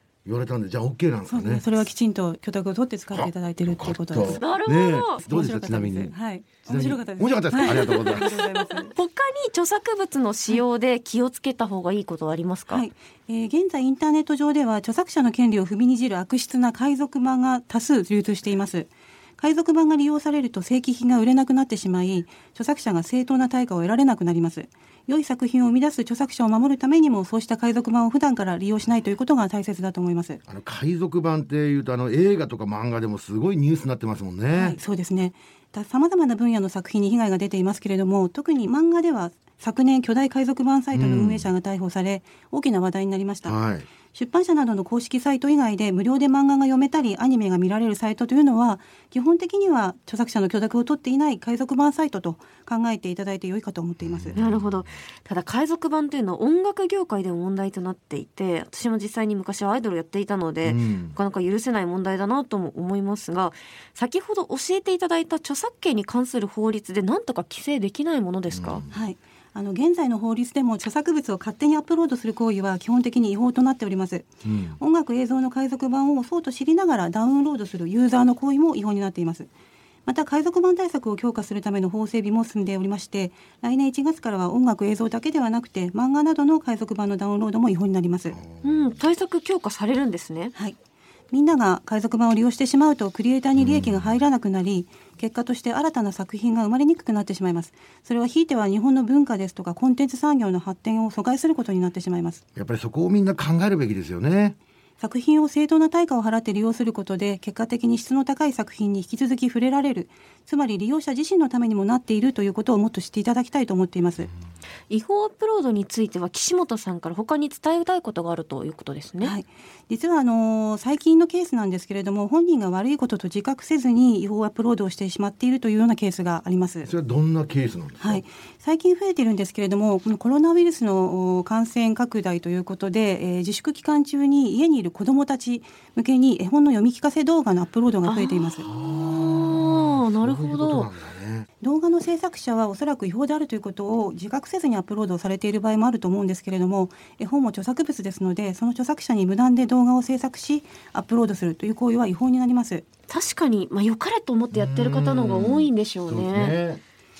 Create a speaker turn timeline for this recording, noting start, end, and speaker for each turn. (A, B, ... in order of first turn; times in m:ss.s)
0:00.2-0:01.7 A
0:01.3-0:04.4 B
0:03.1-0:06.1 A
0:04.4-0:05.2 C
0:05.2-0:08.9 B
0:06.7-0:08.3 A
0:08.0-0:12.8 C
0:12.7-0:30.4 B
0:30.5-0:34.8 A
0:34.5-0:43.6 B
0:40.9-0:41.5 A
0:43.5-0:43.9 A
0:44.1-0:54.4 B
0:54.0-0:54.9 A
0:54.4-1:08.8 C
1:00.6-1:01.2 A
1:08.5-1:09.0 A
1:08.9-1:19.5 B
1:14.4-1:14.8 A
1:20.0-1:28.4 B
1:28.3-1:29.0 A
1:28.6-1:30.5 C
1:31.3-1:42.4 B
1:33.6-1:34.1 A
1:42.6-1:44.6 A
1:45.0-1:54.3 B
1:54.9-1:59.3 C
1:59.2-2:06.9 B
2:06.8-2:08.2 A
2:08.0-2:18.7 B
2:18.0-2:20.9 C
2:18.6-2:21.5 A
2:21.6-2:32.8 B
2:33.1-2:36.6 C
2:34.5-2:36.8 A